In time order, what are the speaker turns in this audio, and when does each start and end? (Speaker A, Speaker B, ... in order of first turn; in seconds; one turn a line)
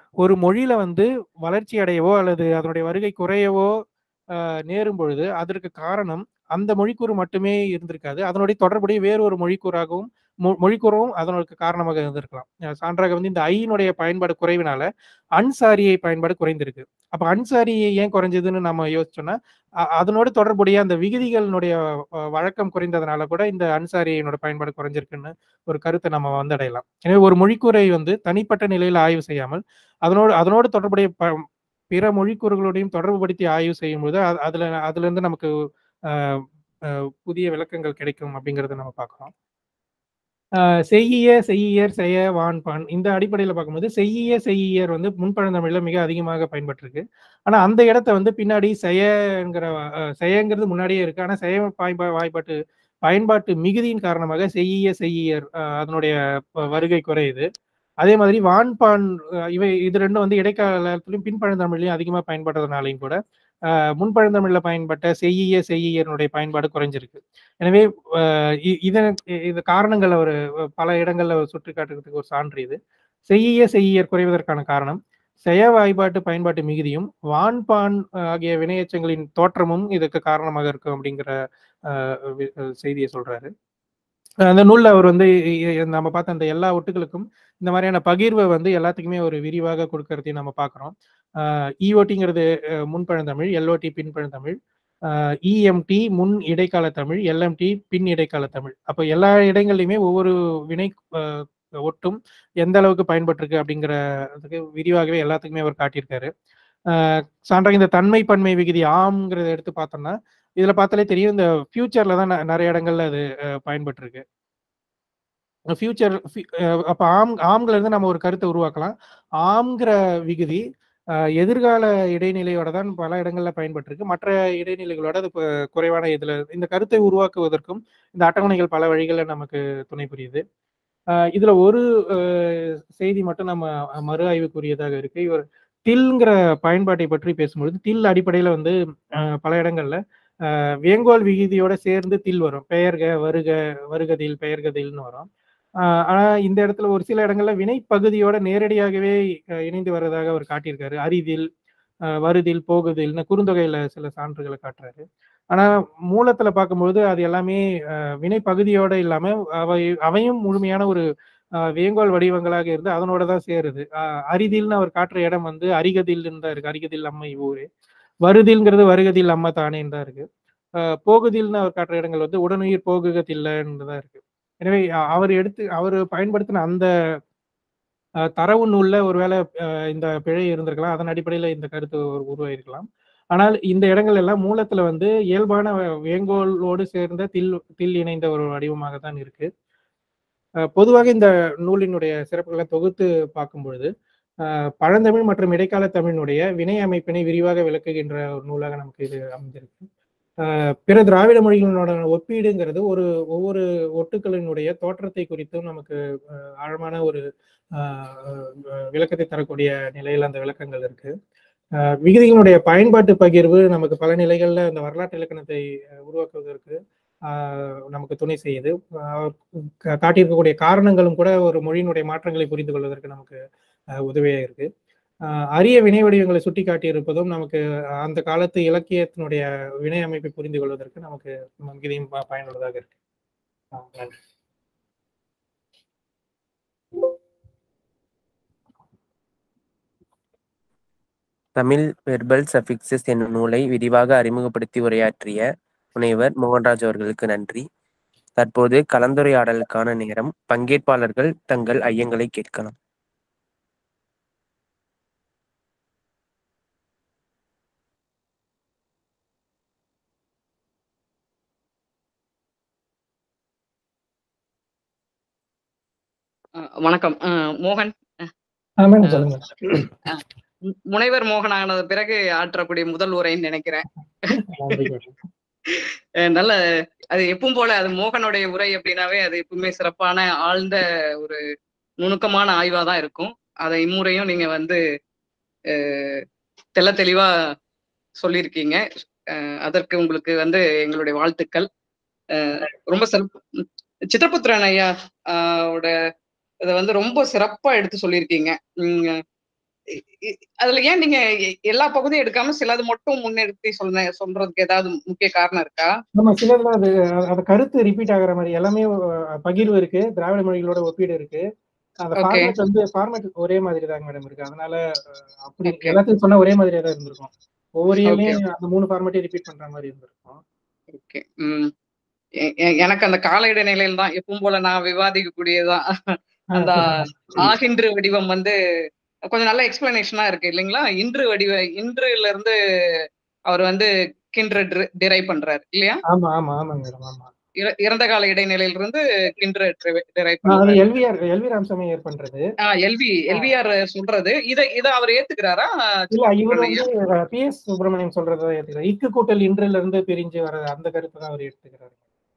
Speaker A: 0.2-3.7
Speaker A: 4.4-14.9
Speaker A: 15.4-19.4
Speaker A: 20.0-21.8
Speaker A: 22.4-31.1
Speaker A: 31.9-35.5
Speaker A: 37.3-39.3
Speaker A: 40.9-52.6
Speaker A: 53.1-56.1
Speaker A: 56.7-57.5
Speaker A: 58.0-63.2
Speaker A: 64.0-72.8
Speaker A: 73.3-81.3
Speaker A: 81.9-83.5
Speaker A: 84.5-85.3
Speaker A: 85.8-94.6
Speaker A: 95.5-106.3
Speaker A: 106.9-114.2
Speaker A: 115.8-120.6
Speaker A: 121.4-130.4
Speaker A: 131.3-138.8
Speaker A: 139.4-140.0
Speaker A: 140.9-145.3
Speaker A: 146.1-151.5
Speaker A: 152.2-157.6
Speaker A: 158.2-161.1
Speaker A: 161.8-167.7
Speaker A: 168.3-170.3
Speaker A: 171.0-176.9
Speaker A: 178.4-189.5
Speaker A: 190.8-193.9
Speaker A: 194.8-199.9
Speaker A: 200.5-206.0
Speaker A: 206.6-207.2
Speaker A: 207.8-211.1
Speaker A: 212.1-216.8
Speaker A: 217.3-219.4
Speaker A: 220.0-223.4
Speaker A: 224.1-224.7
Speaker A: 225.6-232.9
Speaker A: 233.7-234.2
Speaker B: 241.6-247.7
Speaker B: 248.4-252.7
Speaker C: 266.6-268.3
Speaker A: 268.8-269.9
Speaker C: 270.1-273.9
Speaker A: 274.4-275.1
Speaker C: 275.7-276.6
Speaker C: 277.1-281.4
Speaker C: 282.0-284.8
Speaker C: 285.7-286.2
Speaker C: 286.8-287.3
Speaker C: 288.2-291.7
Speaker C: 292.3-295.9
Speaker C: 296.6-299.2
Speaker C: 299.9-306.0
Speaker A: 306.2-308.9
Speaker A: 309.4-311.4
Speaker A: 312.0-314.8
Speaker C: 312.2-312.5
Speaker A: 315.4-320.4
Speaker C: 315.7-316.0
Speaker C: 318.1-318.4
Speaker C: 320.9-321.7
Speaker C: 322.4-328.6
Speaker A: 326.6-327.5
Speaker C: 329.3-332.6
Speaker C: 333.5-336.0
Speaker A: 336.1-337.3
Speaker C: 337.6-340.8
Speaker A: 340.5-342.4
Speaker C: 342.7-346.9
Speaker A: 346.1-351.9